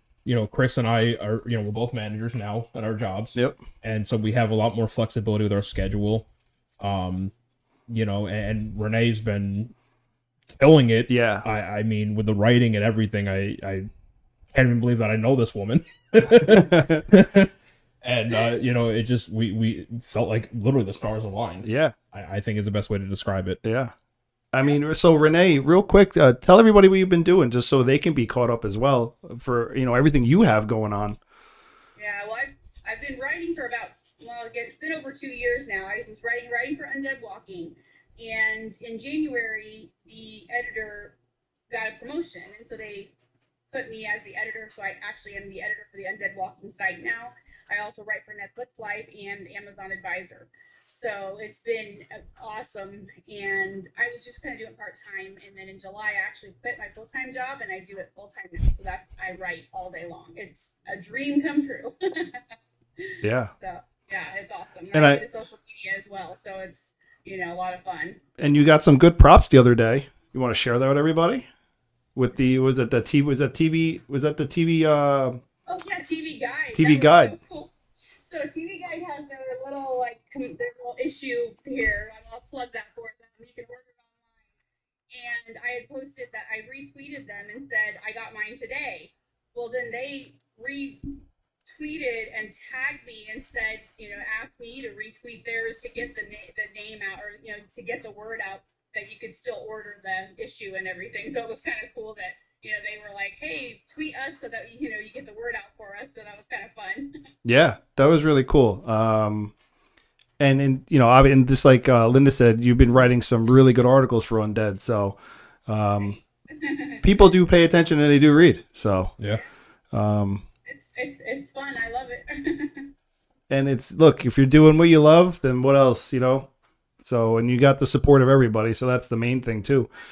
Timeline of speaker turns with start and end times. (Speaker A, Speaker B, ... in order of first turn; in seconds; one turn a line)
Speaker A: 0.2-6.3
Speaker A: 6.8-7.3
Speaker A: 7.9-9.7
Speaker A: 10.6-13.9
Speaker B: 11.1-11.5
Speaker A: 14.5-17.5
Speaker B: 16.4-17.1
Speaker A: 18.0-23.6
Speaker B: 21.6-22.0
Speaker B: 23.6-23.9
Speaker B: 24.5-31.2
Speaker C: 32.0-41.2
Speaker C: 41.7-43.1
Speaker C: 43.7-62.4
Speaker C: 63.0-68.2
Speaker B: 63.2-63.5
Speaker B: 64.9-65.2
Speaker B: 68.4-71.5
Speaker B: 72.2-75.4
Speaker C: 75.7-84.5
Speaker B: 76.8-77.4
Speaker C: 85.1-91.1
Speaker C: 91.7-107.1
Speaker B: 107.5-109.5
Speaker B: 110.4-116.2
Speaker C: 116.0-117.0
Speaker B: 117.0-119.2
Speaker B: 119.9-120.5
Speaker C: 120.7-122.9
Speaker B: 123.5-126.5
Speaker B: 127.0-129.9